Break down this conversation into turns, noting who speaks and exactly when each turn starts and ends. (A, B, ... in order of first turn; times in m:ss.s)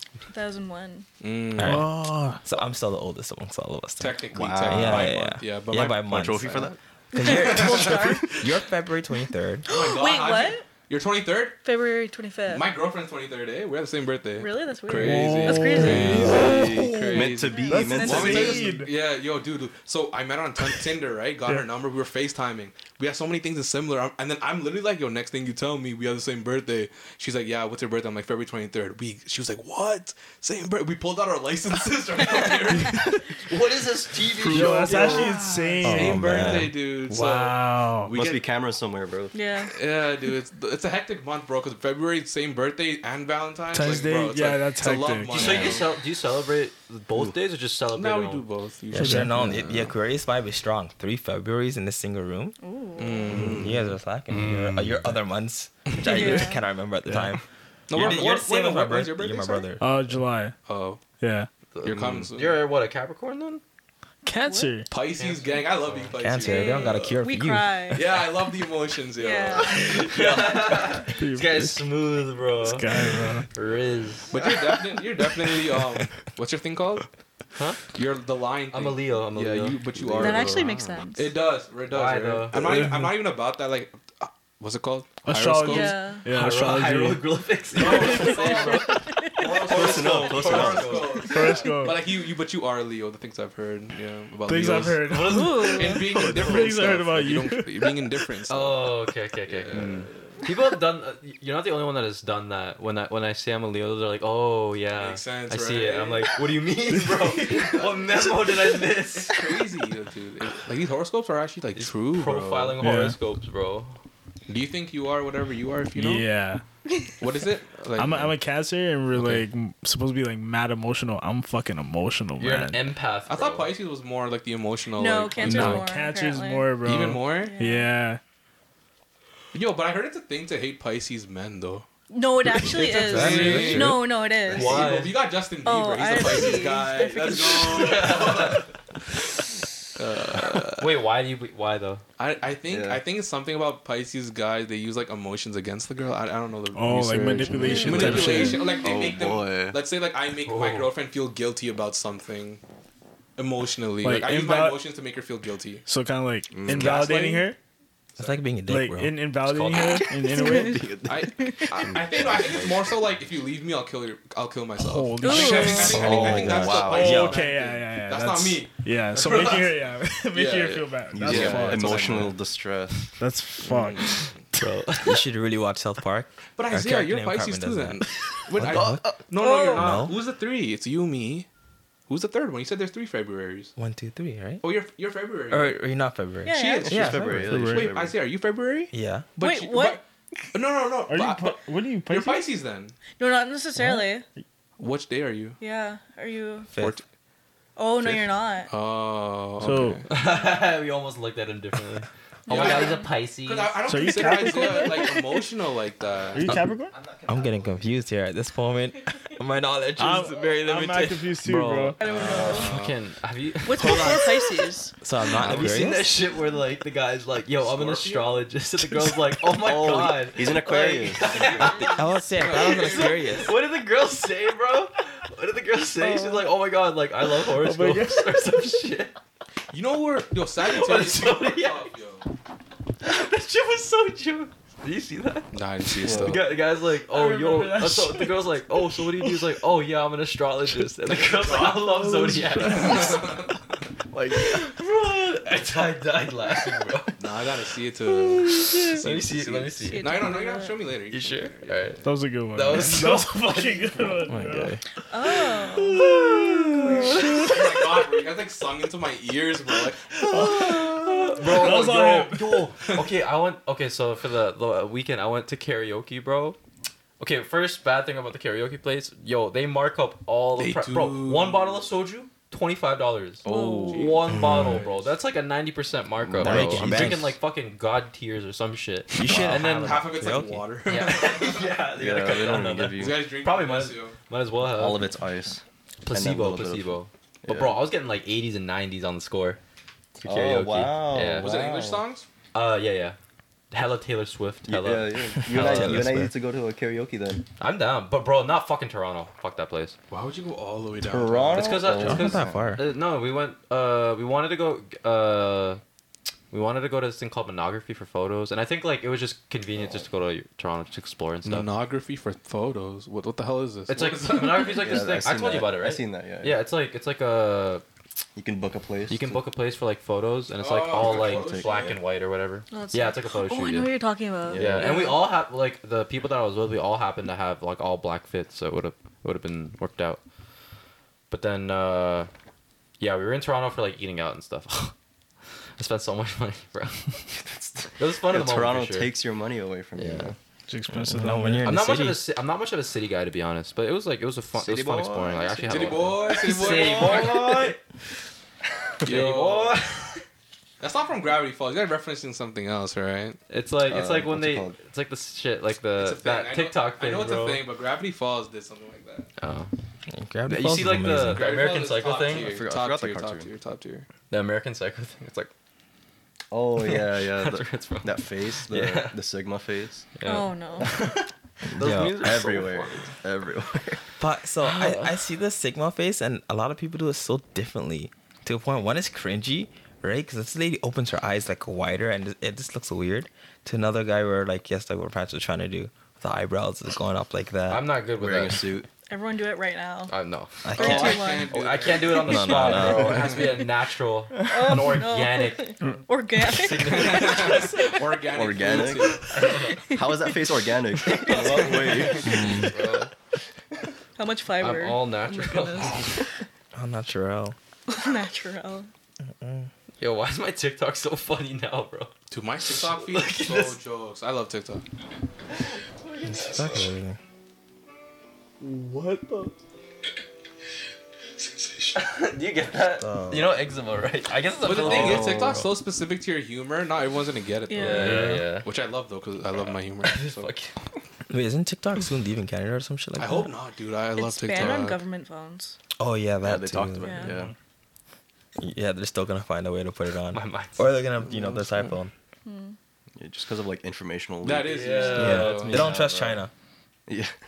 0:00.3-0:01.1 A
0:01.2-0:01.9 B
0:01.6-0:09.7 C
0:01.6-0:02.4 D
0:04.0-0:06.7 B
0:04.3-0:05.2 E
0:05.7-0:06.8 E
0:07.1-0:08.5 A
0:07.3-0:08.1 B
0:09.6-0:10.7 A
0:09.7-0:11.6 B
0:11.6-0:12.7 A
0:12.5-0:33.2 B
0:14.4-0:16.4 A
0:14.9-0:18.9 D
0:16.4-0:18.7 E
0:17.1-0:18.6 A
0:32.4-0:33.0 A
0:33.5-0:35.3 F
0:34.4-0:38.4 B
0:34.4-0:38.1 D
0:35.8-0:36.8 C
0:38.1-0:39.4 E
0:39.3-0:39.7 A
0:39.6-0:46.0 B
0:43.7-0:45.7 D
0:45.3-0:48.4 F
0:47.9-0:49.7 B
0:48.9-0:52.6 C
0:49.0-0:49.6 D
0:52.6-0:53.6 A
0:53.0-0:53.9 B
0:53.6-0:59.8 C
0:54.3-0:55.2 F
0:55.9-0:56.2 B
0:56.0-0:56.7 A
0:57.1-0:57.3 D
0:57.9-0:59.7 B
0:59.8-1:00.6 D
1:00.6-1:01.0 B
1:01.2-1:01.5 D
1:01.7-1:03.6 F
1:01.8-1:02.7 B
1:04.2-1:04.9 D
1:04.4-1:04.8 A
1:04.9-1:07.2 B
1:05.2-1:06.1 F
1:06.2-1:08.0 C
1:06.4-1:08.3 A
1:07.9-1:10.5 B
1:09.2-1:10.1 A
1:09.6-1:14.4 F
1:11.1-1:11.9 D
1:12.6-1:13.5 D
1:14.3-1:17.1 B
1:17.6-1:17.9 F
1:17.9-1:26.2 B
1:18.7-1:19.8 F
1:20.0-1:20.6 E
1:20.1-1:21.4 A
1:21.9-1:23.2 F
1:25.2-1:27.3 D
1:25.6-1:26.3 A
1:26.3-1:31.3 F
1:27.7-1:38.9 B
1:27.8-1:29.6 A
1:29.6-1:31.2 E
1:31.3-1:32.0 D
1:34.5-1:38.2 D
1:35.1-1:35.9 F
1:35.2-1:36.1 A
1:38.5-1:39.9 F
1:39.5-1:40.3 B
1:39.7-1:40.0 E
1:40.4-1:49.4 F
1:44.9-1:46.6 B
1:47.2-1:52.8 B
1:51.8-1:54.0 F
1:52.8-1:53.2 D
1:54.5-1:56.3 B
1:56.0-1:56.6 D
1:57.2-1:58.4 B
1:58.0-2:02.9 D
1:59.1-1:59.5 F
2:02.4-2:03.7 F
2:03.3-2:05.8 B
2:04.9-2:06.8 A
2:05.4-2:08.2 D
2:05.5-2:05.8 C
2:06.8-2:07.6 B
2:07.4-2:07.9 A
2:09.5-2:11.9 B
2:12.1-2:15.1 A
2:12.7-2:15.2 F
2:12.8-2:18.7 B
2:15.6-2:18.2 A
2:17.3-2:18.6 F
2:20.0-2:21.0 B
2:20.8-2:22.0 F
2:22.2-2:32.6 B
2:22.7-2:23.0 E
2:26.7-2:28.6 D
2:27.5-2:28.9 A
2:28.7-2:29.8 E
2:30.4-2:30.9 F
2:33.4-2:35.8 B
2:34.0-2:34.8 D
2:35.9-2:37.6 D
2:36.5-2:37.0 E
2:36.7-2:37.5 B
2:38.2-2:39.3 C
2:38.7-2:40.9 D
2:39.4-2:40.0 F
2:40.3-2:41.8 A
2:40.5-2:41.3 E
2:41.1-2:52.4 B
2:41.9-2:42.8 F
2:44.8-2:52.3 D
2:45.2-2:46.1 A
2:46.0-2:47.2 E
2:46.0-2:47.4 C
2:51.1-2:53.1 E
2:53.2-2:54.3 D
2:53.6-2:54.4 B
2:54.5-2:55.3 F
2:55.0-3:00.2 C
2:56.6-3:01.5 B
2:58.8-2:59.2 E
2:59.3-3:00.0 A
3:02.1-3:03.7 B
3:03.8-3:04.6 C
3:04.6-3:05.8 B
3:05.5-3:07.8 C
3:06.4-3:07.1 A
3:06.5-3:10.0 B
3:06.8-3:08.2 E
3:07.5-3:07.9 D
3:08.9-3:09.3 C
3:09.4-3:10.0 A
3:10.5-3:13.0 B
3:11.1-3:12.5 D
3:13.1-3:14.3 A
3:14.8-3:15.6 B
3:15.6-3:16.8 A
3:16.8-3:17.0 B
3:17.8-3:18.7 A
3:18.0-3:20.1 B
3:19.6-3:20.0 D
3:20.1-3:23.8 F
3:22.5-3:23.1 A
3:22.5-3:26.6 B
3:23.9-3:25.0 D
3:24.2-3:25.5 A
3:26.3-3:26.9 D
3:26.9-3:27.6 F
3:27.3-3:31.9 C
3:30.0-3:32.0 D
3:32.0-3:32.8 A
3:32.0-3:33.0 B
3:32.0-3:34.2 F
3:33.6-3:35.0 A
3:33.7-3:34.6 B
3:35.0-3:36.2 C
3:35.4-3:49.1 F
3:37.6-3:38.4 B
3:39.6-3:41.8 E
3:41.5-3:42.0 A
3:41.8-3:43.2 C
3:42.3-3:43.6 B
3:46.0-3:46.4 A
3:47.4-3:48.7 D
3:49.7-3:52.3 B
3:50.6-3:51.9 F
3:53.0-3:55.6 F
3:55.5-3:56.6 B
3:56.0-3:56.4 E
3:56.1-4:03.3 F
3:57.1-3:58.4 D
4:01.1-4:04.5 B
4:01.8-4:03.2 D
4:04.3-4:07.2 F
4:07.2-4:12.1 B
4:08.4-4:10.3 F
4:08.5-4:09.0 A
4:09.8-4:10.9 A
4:11.1-4:14.3 F
4:12.0-4:14.8 D
4:14.2-4:14.8 C
4:15.1-4:17.2 A
4:15.3-4:17.6 F
4:17.3-4:20.2 B
4:20.2-4:22.7 D
4:20.3-4:26.6 F
4:27.2-4:40.2 F
4:30.6-4:31.8 B
4:33.4-4:34.2 E
4:33.4-4:34.2 A
4:33.9-4:35.1 B
4:34.3-4:34.8 C
4:36.2-4:37.3 E
4:36.4-4:37.4 C
4:39.2-4:40.7 C
4:39.2-4:41.7 B
4:40.9-4:45.0 F
4:42.0-4:43.2 E
4:42.9-4:44.2 B
4:44.7-4:47.8 E
4:46.0-4:49.6 F
4:50.2-4:51.6 F
4:50.2-4:52.0 E
4:51.3-4:52.3 B
4:52.5-4:53.2 F
4:53.7-4:56.1 F
4:54.7-4:57.4 E
4:55.4-4:56.3 C
4:57.6-5:00.0 F
5:00.1-5:01.8 B
5:01.0-5:02.7 E
5:01.5-5:05.8 F
5:01.8-5:02.9 C
5:06.5-5:11.7 F
5:09.8-5:10.0 E
5:11.4-5:14.8 B
5:13.9-5:17.8 F
5:14.8-5:16.7 E
5:18.4-5:19.4 E
5:19.1-5:24.0 F
5:20.6-5:22.0 B
5:21.0-5:22.0 E
5:22.7-5:25.3 A
5:24.4-5:25.0 E
5:24.5-5:30.2 F
5:31.3-5:32.3 F
5:33.0-5:34.9 F
5:35.8-5:37.2 F
5:37.5-5:40.4 E
5:38.0-5:39.1 F
5:40.0-5:40.3 F
5:40.7-5:41.8 D
5:40.9-5:42.3 C
5:41.6-5:47.8 F
5:44.6-5:47.7 E
5:45.7-5:47.7 B
5:49.0-5:49.8 B
5:49.0-5:50.2 F
5:50.8-5:53.4 B
5:53.5-5:57.6 F
5:53.9-5:54.8 E
5:56.0-5:59.3 B
5:59.4-5:59.7 F
6:00.1-6:01.5 C
6:00.5-6:02.5 F
6:01.2-6:04.1 B
6:02.3-6:03.5 E
6:04.3-6:05.5 F
6:06.5-6:10.1 E
6:06.8-6:09.2 F
6:10.2-6:13.1 F
6:10.2-6:11.0 A
6:11.7-6:12.3 C
6:11.8-6:14.0 E
6:14.2-6:27.9 C
6:14.6-6:15.2 F
6:27.7-6:28.7 F
6:28.2-6:28.9 E
6:29.1-6:30.2 A
6:30.1-6:35.8 F
6:30.6-6:31.4 C
6:30.7-6:31.7 A
6:30.8-6:33.6 B
6:32.1-6:33.4 E
6:34.4-6:34.7 E
6:34.4-6:38.0 A
6:36.4-6:37.9 F
6:36.9-6:39.5 B
6:38.3-6:39.3 E
6:39.3-6:39.8 F
6:39.6-6:40.4 A
6:39.9-6:42.4 E
6:41.1-6:42.2 A
6:41.3-6:43.1 F
6:41.3-6:43.1 B
6:42.2-6:42.7 C
6:44.2-6:46.2 A
6:44.6-6:46.2 F
6:46.8-6:47.6 C
6:47.9-6:48.9 A
6:49.3-6:49.7 C
6:50.0-6:52.2 F
6:52.3-6:54.8 B
6:52.7-6:53.8 F
6:55.6-6:56.9 F
6:56.3-6:57.2 C
7:01.9-7:05.7 F
7:03.0-7:03.6 C
7:04.6-7:10.5 B
7:04.8-7:05.6 E
7:07.7-7:08.4 A
7:07.8-7:08.7 F
7:10.0-7:10.7 F
7:11.3-7:13.5 C
7:13.2-7:15.0 B
7:14.2-7:15.8 A
7:16.0-7:17.3 C
7:16.4-7:17.5 E
7:17.0-7:17.4 A
7:18.6-7:22.1 C
7:20.3-7:21.0 F
7:22.4-7:22.8 A
7:23.2-7:24.8 E
7:24.4-7:25.9 B
7:24.6-7:26.4 F
7:24.9-7:25.3 A
7:25.2-7:26.5 C
7:25.6-7:26.2 E
7:27.1-7:27.3 E